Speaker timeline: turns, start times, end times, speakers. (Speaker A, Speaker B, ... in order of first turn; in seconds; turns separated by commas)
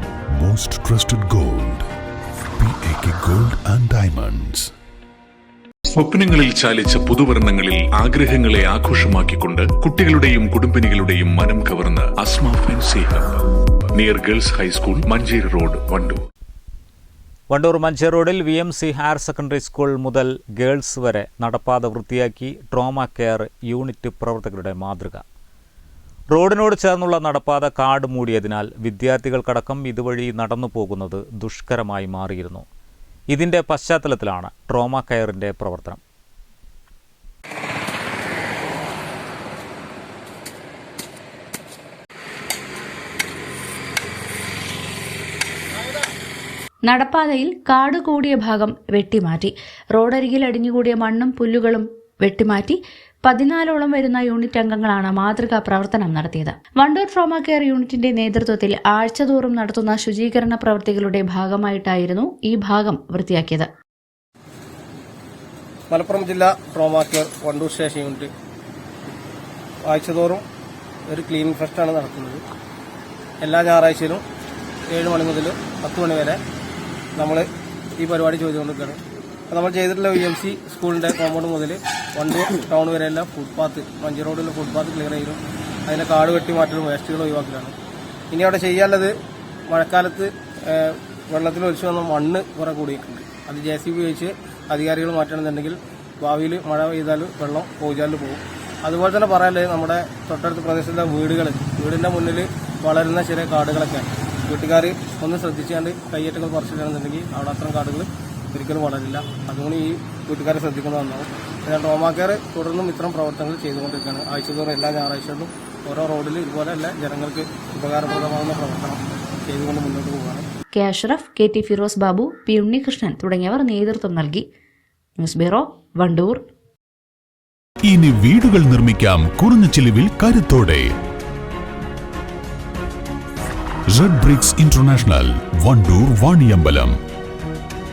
Speaker A: 0.4-1.9, Speaker A: 2.6-4.7, Speaker B: 5.9-13.4, Speaker B: 14.0-16.2, Speaker C: 17.5-25.2, Speaker C: 26.3-32.6, Speaker C: 33.3-36.0, Speaker D: 46.9-63.7, Speaker E: 65.9-68.3, Speaker E: 69.8-70.4, Speaker E: 71.1-72.4, Speaker E: 73.4-74.2, Speaker E: 74.9-76.4, Speaker E: 77.2-77.5, Speaker E: 78.0-87.7, Speaker E: 88.3-89.1, Speaker E: 89.7-120.4, Speaker D: 120.7-124.4, Speaker D: 125.2-126.4, Speaker A: 127.8-130.9, Speaker A: 133.9-136.9